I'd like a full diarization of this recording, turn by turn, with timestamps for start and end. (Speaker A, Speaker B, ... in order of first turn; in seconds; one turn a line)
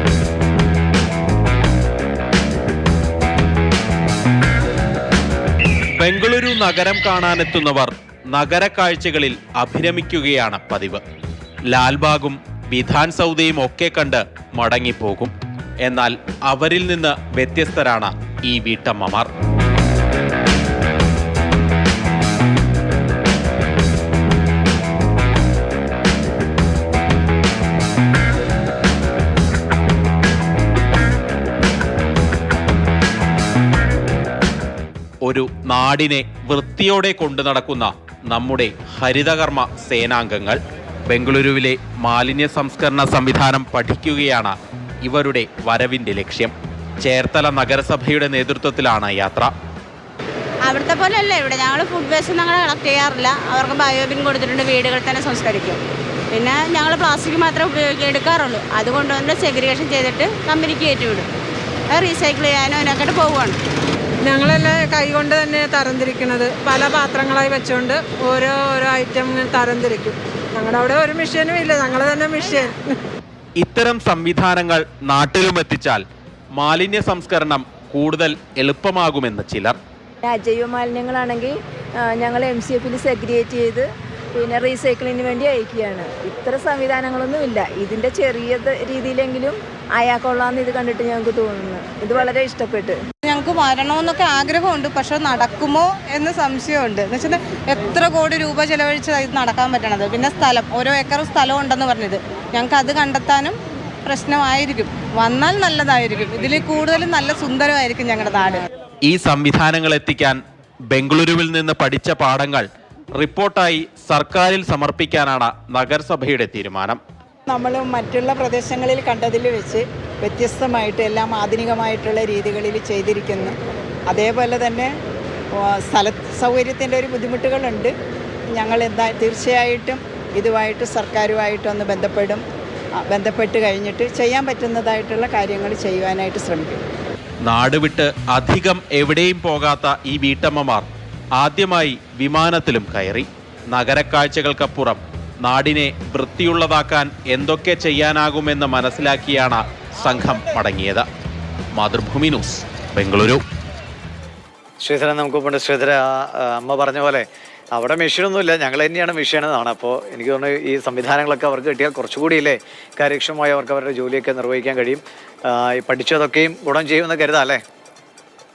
Speaker A: 6.0-11.0
Speaker A: 11.7-19.3
Speaker A: 35.2-49.5
Speaker B: 50.6-55.8
Speaker B: 56.3-61.3
Speaker B: 61.9-63.6
Speaker C: 64.2-72.8
Speaker A: 73.6-76.0
Speaker A: 76.5-79.8
Speaker D: 80.2-93.0
Speaker E: 93.2-103.5
Speaker E: 104.0-108.6
Speaker A: 109.0-110.4
Speaker A: 110.9-117.0
Speaker F: 117.5-123.5
Speaker F: 124.1-124.9
Speaker F: 125.5-127.9
Speaker F: 128.5-132.4
Speaker F: 133.0-136.8
Speaker A: 137.4-151.1
Speaker A: 151.7-153.4
Speaker G: 154.8-167.6